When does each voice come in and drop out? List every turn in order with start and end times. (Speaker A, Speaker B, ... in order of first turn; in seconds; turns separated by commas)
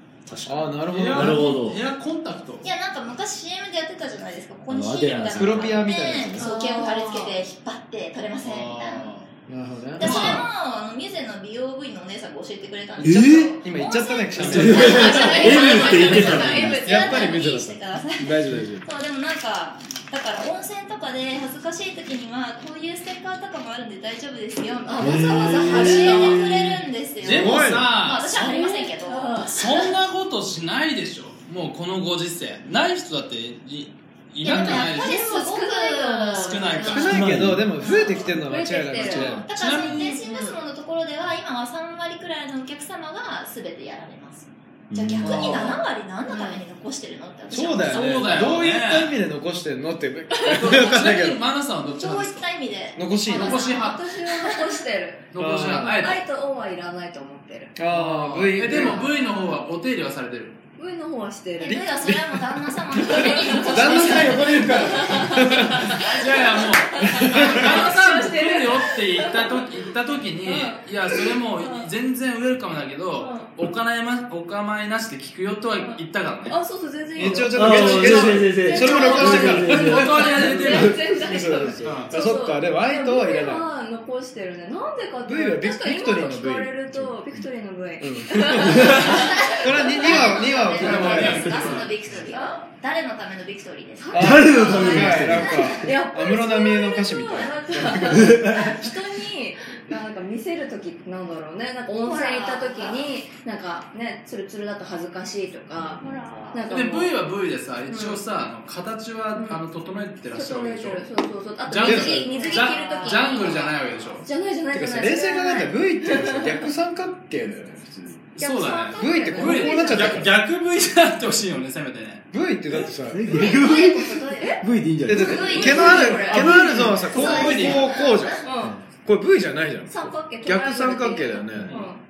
Speaker A: 0.3-1.8, Speaker B: 0.5-1.5, Speaker C: 0.9-2.7, Speaker D: 2.6-9.1, Speaker A: 4.7-5.8, Speaker B: 5.3-6.5, Speaker E: 6.4-7.3, Speaker C: 8.4-9.3, Speaker B: 9.5-10.4, Speaker D: 9.9-29.6, Speaker C: 10.0-10.5, Speaker A: 13.0-13.6, Speaker B: 13.6-18.9, Speaker A: 14.4-16.8, Speaker C: 14.4-14.8, Speaker E: 14.6-16.8, Speaker E: 24.9-26.5, Speaker A: 25.0-26.8, Speaker C: 27.2-28.5, Speaker B: 27.2-27.9, Speaker E: 28.3-29.9, Speaker C: 29.4-35.1, Speaker D: 34.4-37.2, Speaker B: 34.5-34.8, Speaker E: 34.5-37.2, Speaker C: 36.3-37.4, Speaker B: 36.8-39.4, Speaker A: 37.0-37.7, Speaker D: 37.8-38.4, Speaker E: 37.8-39.4, Speaker C: 39.0-40.2, Speaker D: 39.1-48.6, Speaker E: 40.1-40.6, Speaker A: 44.9-45.8, Speaker B: 45.2-45.7, Speaker E: 46.3-46.6, Speaker B: 47.5-51.4, Speaker C: 47.9-49.2, Speaker C: 50.5-52.5, Speaker D: 52.0-54.7, Speaker B: 53.0-53.6, Speaker C: 53.3-54.0, Speaker E: 53.3-55.3, Speaker C: 55.3-56.2, Speaker B: 55.4-56.0, Speaker E: 55.8-57.8, Speaker B: 57.8-59.1, Speaker C: 57.9-60.6, Speaker E: 58.6-59.6, Speaker E: 60.8-61.8, Speaker D: 61.6-66.1, Speaker B: 61.6-66.0, Speaker E: 63.1-69.6, Speaker C: 66.0-76.6, Speaker B: 67.0-67.9, Speaker E: 70.4-71.9, Speaker E: 73.1-73.5, Speaker E: 75.8-91.3, Speaker B: 77.1-83.7, Speaker A: 77.4-81.4, Speaker C: 79.3-81.0, Speaker C: 81.8-82.1, Speaker B: 85.2-87.4, Speaker B: 88.0-91.9, Speaker D: 88.8-95.6, Speaker C: 90.6-91.9, Speaker E: 92.1-92.6, Speaker E: 94.0-107.2, Speaker B: 94.1-98.9, Speaker A: 94.1-95.8, Speaker D: 102.0-103.0, Speaker D: 106.0-106.7, Speaker C: 106.7-111.1, Speaker E: 107.9-108.2, Speaker E: 109.3-109.6, Speaker E: 110.3-113.7, Speaker C: 111.7-114.2, Speaker B: 111.8-112.3, Speaker D: 112.2-114.2, Speaker E: 114.2-116.6, Speaker B: 114.7-118.3, Speaker C: 118.3-122.2, Speaker E: 118.4-120.2, Speaker B: 119.0-120.4, Speaker B: 122.3-123.3, Speaker A: 122.7-126.9, Speaker D: 123.3-128.5, Speaker E: 123.5-124.6, Speaker B: 125.0-131.8, Speaker E: 125.4-127.8, Speaker C: 126.3-127.9, Speaker E: 128.4-128.8, Speaker E: 129.9-132.0